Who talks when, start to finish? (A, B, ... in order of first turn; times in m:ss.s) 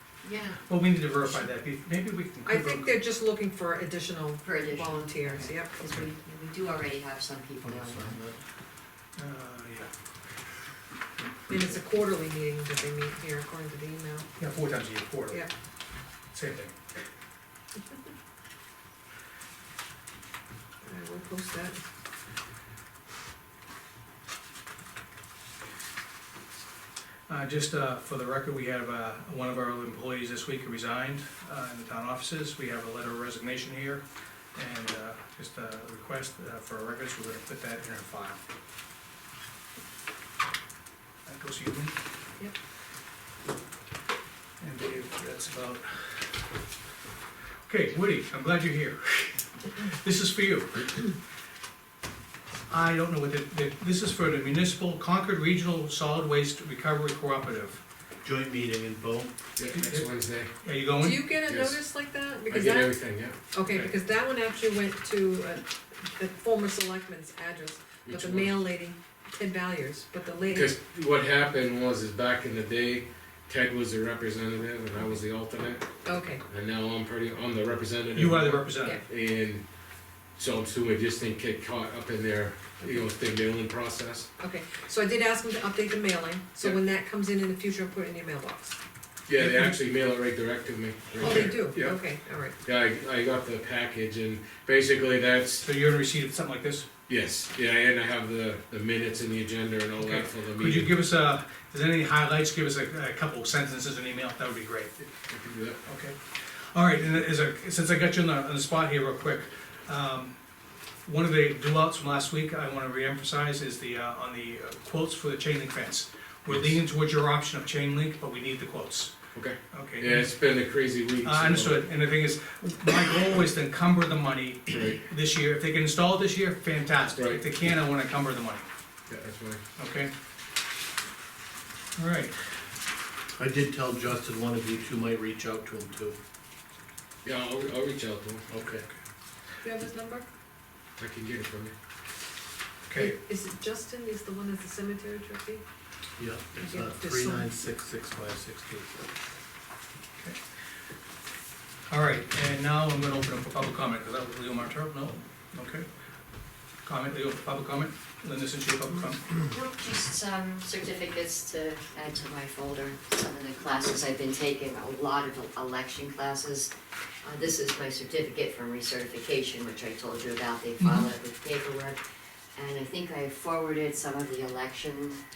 0:00.2-0:00.6 A
0:00.6-0:03.0 B
0:02.4-0:05.7 C
0:04.4-0:08.2 A
0:07.6-0:08.4 D
0:09.2-0:09.9 B
0:11.5-0:14.3 C
0:14.4-0:15.4 B
0:16.3-0:16.7 B
0:20.8-0:21.8 C
0:27.3-0:34.0 B
0:34.5-0:38.4 B
0:41.2-0:42.0 B
0:44.6-0:46.3 B
0:47.6-0:51.1 B
0:52.7-0:57.8 B
0:58.2-0:59.3 D
0:59.6-1:00.5 E
0:59.7-1:00.1 B
1:00.6-1:01.2 B
1:01.0-1:03.0 C
1:01.4-1:01.8 E
1:02.5-1:03.4 E
1:03.5-1:10.7 C
1:03.6-1:03.9 B
1:08.0-1:08.6 E
1:10.5-1:19.6 E
1:16.0-1:16.4 C
1:18.1-1:19.0 B
1:20.4-1:24.3 E
1:24.4-1:28.8 C
1:29.3-1:35.7 E
1:29.4-1:29.7 B
1:31.2-1:32.6 C
1:35.6-1:36.9 B
1:37.1-1:40.9 E
1:40.0-1:44.9 B
1:45.0-1:45.8 E
1:45.8-1:46.2 B
1:46.7-1:50.4 B
1:51.0-1:59.1 B
1:59.3-2:01.9 E
1:59.7-2:00.3 B
2:01.2-2:08.7 B
2:04.7-2:05.0 E
2:07.1-2:07.5 E
2:09.1-2:09.6 E
2:09.8-2:10.1 B
2:12.0-2:12.3 B
2:13.4-2:16.2 D
2:17.2-2:18.5 E
2:18.5-2:18.8 D
2:19.6-2:20.2 C
2:21.0-2:21.7 E
2:22.9-2:23.2 B
2:22.9-2:25.6 C
2:26.2-2:28.9 D
2:26.6-2:27.5 C
2:31.9-2:35.9 B
2:36.8-2:39.3 B
2:39.4-2:52.0 A
2:50.8-2:51.1 B
2:52.5-2:55.2 A